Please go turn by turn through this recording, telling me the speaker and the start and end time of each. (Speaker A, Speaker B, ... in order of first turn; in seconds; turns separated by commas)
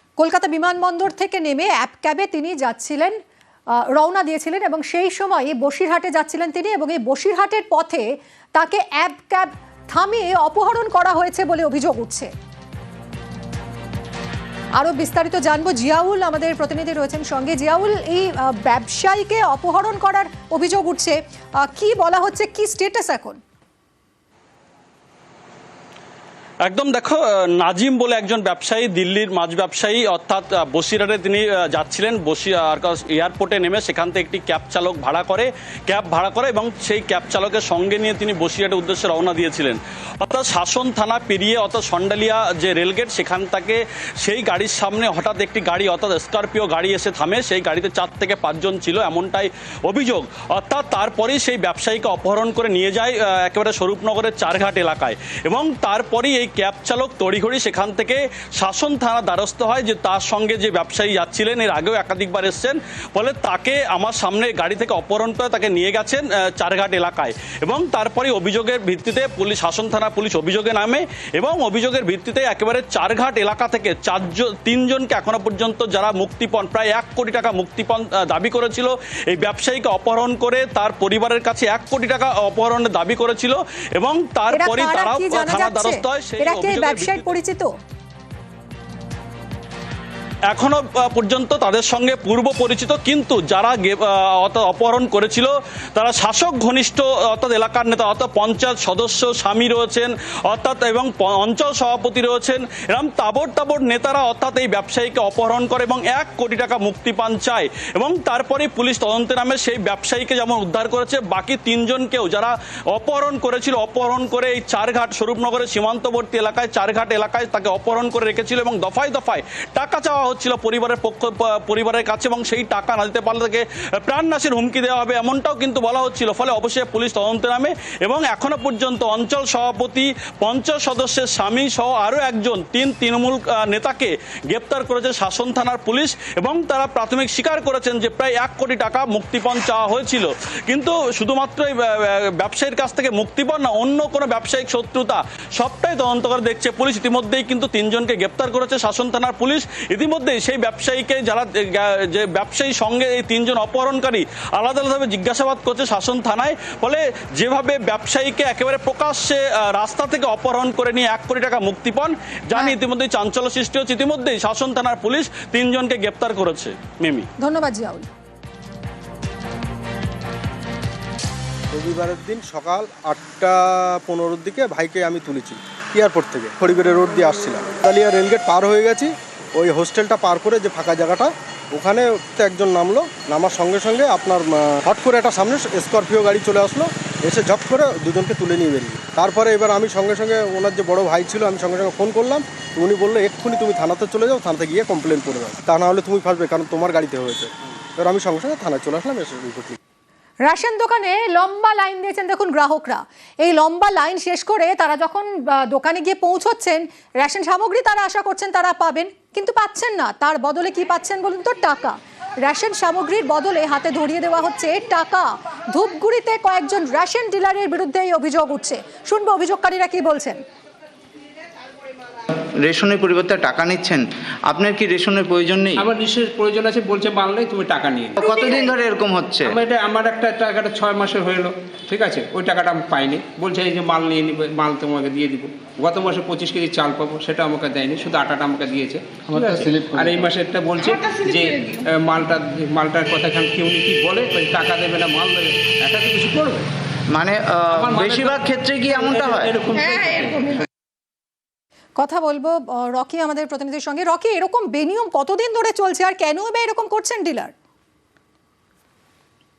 Speaker A: 0.2-3.2, Speaker A: 3.9-12.3, Speaker A: 14.8-23.4, Speaker B: 26.7-87.3, Speaker A: 84.5-87.7, Speaker B: 90.5-167.3, Speaker A: 167.4-168.1, Speaker C: 171.7-199.8, Speaker A: 200.5-220.4, Speaker D: 222.6-225.8, Speaker E: 225.8-228.7, Speaker D: 228.2-229.5, Speaker E: 229.4-246.7, Speaker D: 239.3-239.7, Speaker D: 247.1-249.5, Speaker E: 247.7-250.6, Speaker A: 252.0-257.5